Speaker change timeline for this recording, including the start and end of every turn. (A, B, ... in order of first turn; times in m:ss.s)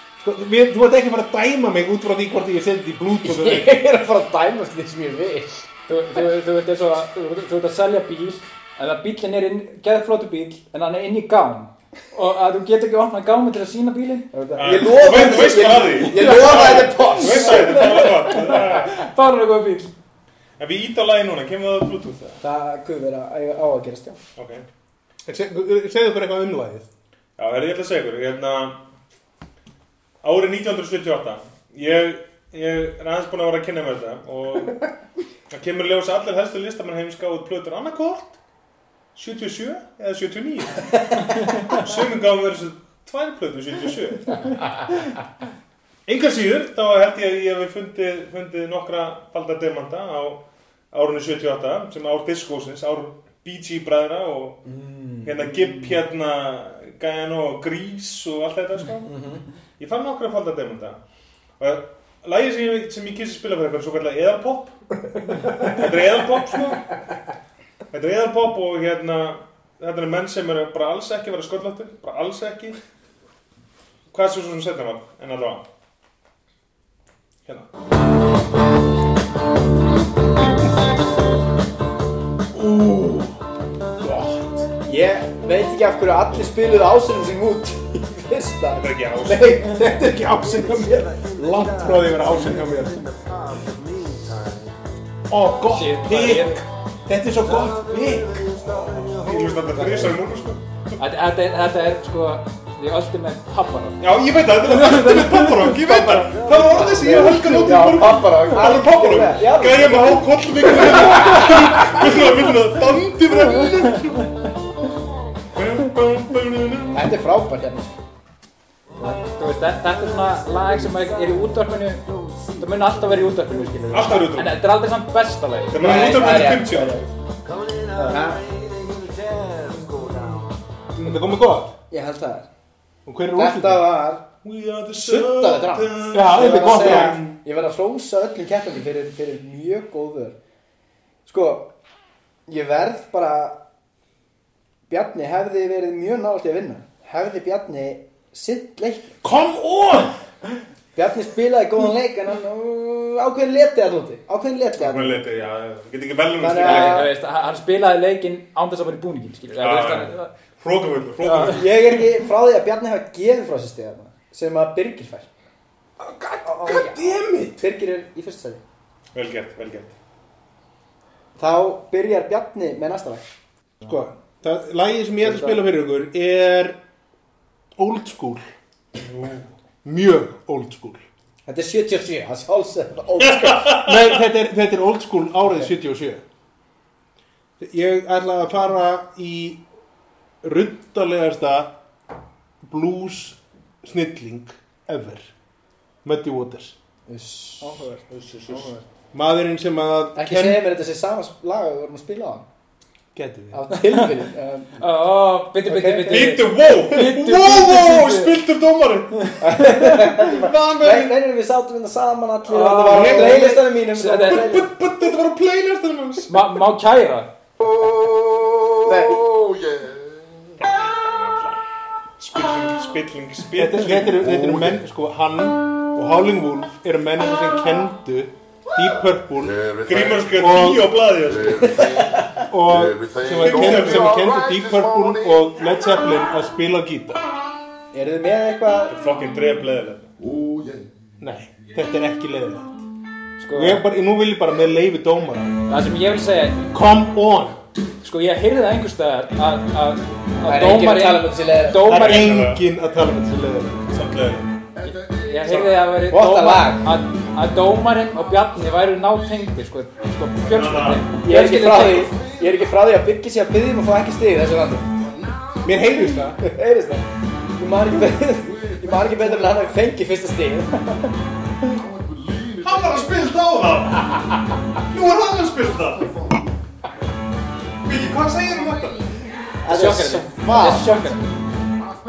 0:00.2-0:03.8 A
0:03.2-0:05.7 B
0:05.9-0:14.3 C
0:14.3-0:18.5 B
0:14.6-0:18.9 D
0:16.1-0:19.9 C
0:20.6-0:22.4 D
0:22.4-0:24.2 B
0:24.4-0:24.6 D
0:25.3-0:26.9 A
0:27.4-0:28.8 D
0:30.2-0:34.9 D
0:35.5-0:38.4 D
0:39.2-0:44.6 D
0:46.1-0:54.6 D
0:54.6-0:56.0 B
0:55.2-0:59.1 D
0:59.0-0:59.4 B
0:59.8-1:01.0 D
1:01.6-1:04.8 D
1:05.4-1:06.9 D
1:07.9-1:12.8 D
1:14.1-1:15.6 D
1:22.5-1:23.4 A
1:24.0-1:24.7 A
1:24.8-1:29.6 B
1:28.8-1:29.7 D
1:29.3-1:33.2 A
1:35.3-1:38.6 A
1:35.7-1:36.6 C
1:38.6-1:41.0 D
1:39.8-1:40.2 C
1:41.0-1:44.0 C
1:44.0-1:54.4 D
1:44.6-1:46.4 C
1:46.9-1:51.8 B
1:55.5-1:57.1 D
1:56.9-1:58.0 B
1:59.0-2:06.1 C
2:03.9-2:04.6 D
2:05.7-2:07.0 D
2:05.7-2:07.1 B
2:08.1-2:08.4 B
2:11.0-2:11.7 A
2:11.9-2:12.5 B
2:13.1-2:13.9 A
2:13.3-2:14.3 B
2:14.4-2:17.4 D
2:14.9-2:20.4 B
2:16.1-2:17.3 A
2:21.3-2:21.7 B
2:22.5-2:23.6 B
2:24.9-2:29.2 B
2:29.2-2:30.1 A
2:31.0-2:35.2 B
2:34.8-2:37.1 D
2:36.4-2:37.1 B
2:36.6-2:40.3 C
2:39.6-2:41.9 D
2:41.2-2:41.6 C
2:41.4-2:45.3 B
2:46.0-2:47.6 A
2:46.4-2:48.6 B
2:49.1-2:50.0 D
2:51.4-2:53.2 B
2:53.8-2:56.8 A
2:55.2-2:55.6 B
2:57.8-2:58.4 A
2:59.0-2:59.5 D
2:59.8-3:01.0 A
3:01.5-3:03.8 B
3:03.2-3:04.2 D
3:03.8-3:06.2 A
3:07.6-3:09.6 A
3:10.4-3:11.8 A
3:12.6-3:15.3 A
3:16.0-3:16.8 A
3:17.1-3:17.7 B
3:17.6-3:18.8 C
3:19.1-3:20.7 A
3:20.2-3:22.5 B
3:23.1-3:23.6 A
3:23.5-3:24.8 B
3:24.8-3:28.4 C
3:25.7-3:27.1 B
3:26.1-3:31.2 D
3:29.2-3:30.0 C
3:29.4-3:34.7 B
3:32.5-3:34.6 C
3:32.9-3:33.5 A
3:32.9-3:33.4 D
3:34.3-3:36.3 D
3:36.3-3:37.3 C
3:38.8-3:39.3 B
3:40.6-3:41.6 D
3:42.2-3:44.4 D
3:43.6-3:50.9 A
3:49.8-3:51.9 D
3:51.7-3:52.3 B
3:52.5-3:57.2 A
3:53.4-3:54.2 D
3:57.9-3:58.9 B
3:58.9-4:00.1 D
4:01.2-4:02.8 A
4:03.4-4:03.8 C
4:03.5-4:05.6 A
4:05.7-4:06.7 C
4:06.7-4:07.6 A
4:08.0-4:12.4 C
4:10.4-4:11.9 B
4:11.8-4:14.0 A
4:11.9-4:12.6 D
4:13.9-4:14.5 D
4:14.8-4:22.1 C
4:16.1-4:16.9 B
4:20.4-4:21.1 D
4:21.2-4:24.9 B
4:25.6-4:26.4 A
4:26.4-4:31.1 B
4:32.6-4:36.1 D
4:37.8-4:39.1 D
4:39.6-4:41.0 B
4:39.7-4:41.3 C